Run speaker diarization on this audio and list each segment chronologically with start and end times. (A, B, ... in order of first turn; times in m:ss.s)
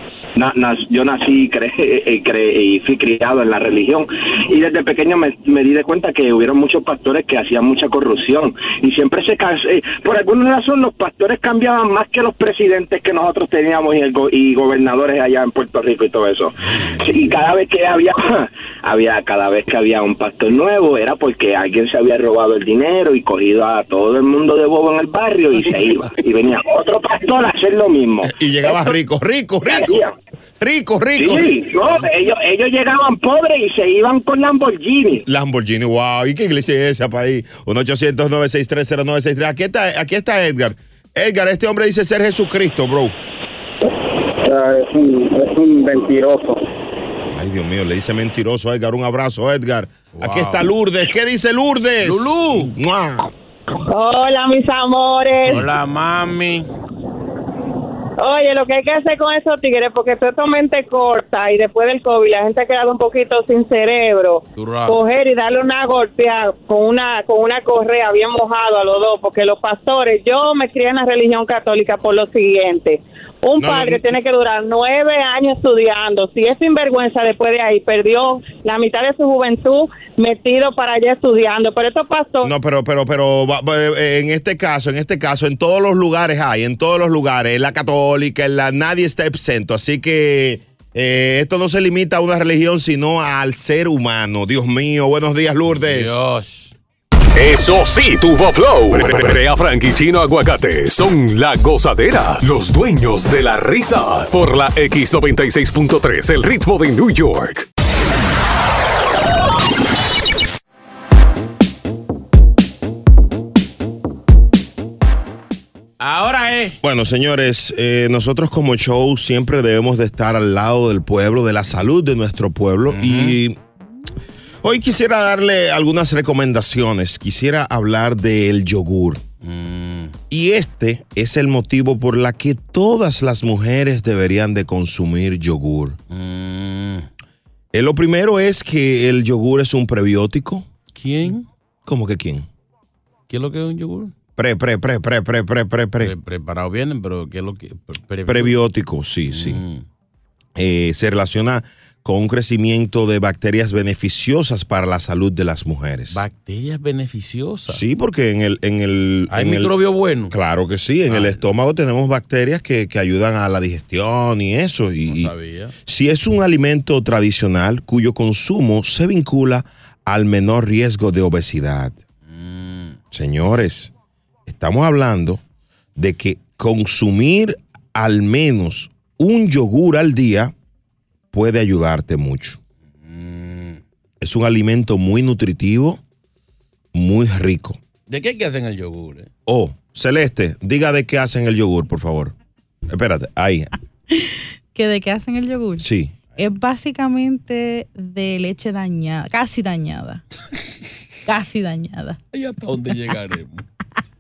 0:00.4-0:29.0 A
0:16.6-0:17.3 B
0:28.2-0:30.0 C
0:29.6-0:30.1 A
0:30.6-0:31.5 C
0:31.2-0:35.2 A
0:35.2-0:43.2 C
0:44.4-0:46.6 D
0:47.3-0:53.3 C
0:50.1-0:50.7 B
0:52.0-0:52.8 B
0:53.9-0:55.6 E
0:55.5-0:56.7 B
0:58.2-1:22.5 E
1:04.6-1:05.0 B
1:13.6-1:14.1 C
1:22.4-1:36.2 C
1:35.8-1:36.8 B
1:37.4-1:47.7 F
1:56.0-1:56.8 B
1:56.8-2:03.6 C
2:02.9-2:03.4 B
2:04.6-2:09.2 C
2:09.4-2:10.2 B
2:10.3-2:16.0 C
2:16.1-2:17.1 B
2:17.7-2:20.7 C
2:20.9-2:21.5 B
2:21.9-2:22.5 C
2:23.3-2:24.1 B
2:24.4-2:26.1 C
2:26.0-2:28.6 B
2:28.3-2:29.6 C
2:29.3-2:29.8 B
2:30.6-2:36.2 C
2:36.1-2:37.8 B
2:37.7-2:39.7 C
2:39.3-2:40.3 B
2:40.3-2:45.3 C
2:41.1-2:41.4 B
2:45.0-2:45.8 B
2:45.9-2:52.0 C
2:52.2-2:53.0 B
2:53.1-2:53.9 C
2:54.5-2:55.4 C
2:56.0-3:00.5 C
3:01.3-3:02.6 C
3:03.0-3:03.8 B
3:04.2-3:06.0 C
3:06.9-3:07.8 C
3:08.1-3:09.3 B
3:09.5-3:12.3 C
3:12.9-3:13.7 C
3:14.7-3:15.9 G
3:15.8-3:16.1 C
3:16.4-3:20.2 G
3:21.2-3:22.2 G
3:22.3-3:23.6 B